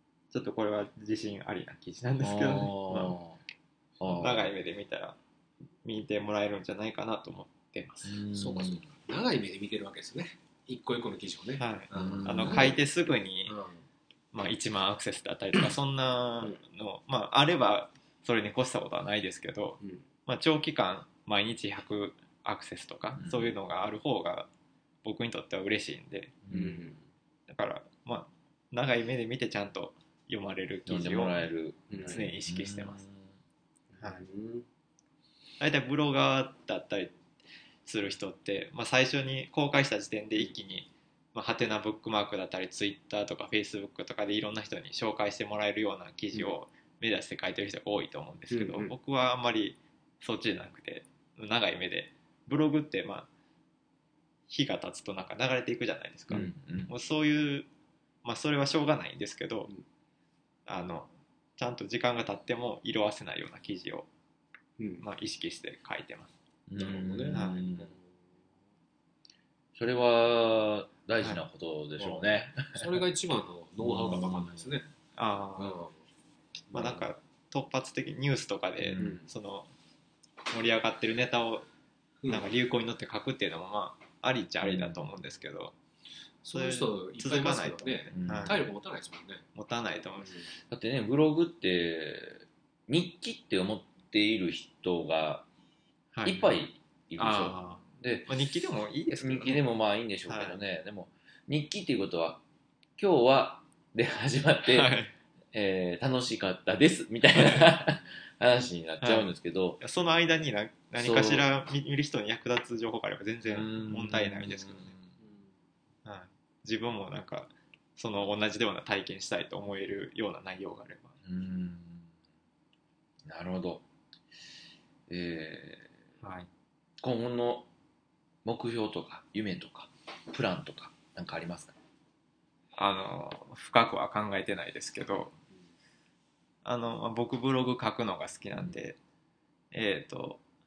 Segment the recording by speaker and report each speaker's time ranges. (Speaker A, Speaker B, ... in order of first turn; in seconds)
Speaker A: 0.3-3.2, 4.0-5.2, 5.8-8.2, 11.6-13.6, 14.3-24.5, 25.0-26.3, 27.5-31.4, 32.0-33.0, 35.6-37.1, 37.8-53.3, 54.5-57.7, 58.2-59.7, 60.7-64.1, 65.0-66.3, 67.3-67.6, 75.2-75.8, 76.7-79.7, 80.5-81.7, 82.3-85.7, 86.5-88.6, 89.5-90.5, 96.1-96.5, 97.2-99.6, 100.3-100.6, 104.6-105.1, 109.0-114.9, 116.0-121.2, 126.2-126.5, 132.8-135.3, 136.6-139.0, 139.7-140.4
Speaker B: 2.2-3.4, 4.0-4.5, 8.0-8.8, 11.9-12.8, 23.2-23.5, 26.4-26.8, 30.9-33.3, 56.3-56.9, 66.7-67.9, 69.7-73.0, 73.8-74.7, 78.8-79.2, 84.6-85.0, 88.1-88.6, 90.7-95.5, 96.2-98.3, 99.2-102.4, 103.0-104.9, 105.5-109.8, 111.0-111.4, 113.5-115.1, 121.2-122.1, 123.2-123.8, 125.1-125.9, 127.0-127.7, 128.4-131.8
Speaker C: 8.3-12.8, 13.5-13.8, 26.5-27.0, 31.9-32.2, 33.9-34.6, 48.5-48.9, 64.8-65.0, 66.8-68.0, 72.0-74.9, 75.6-75.9, 76.7-77.1, 79.0-79.3, 82.2-82.5, 86.4-89.5, 90.2-90.4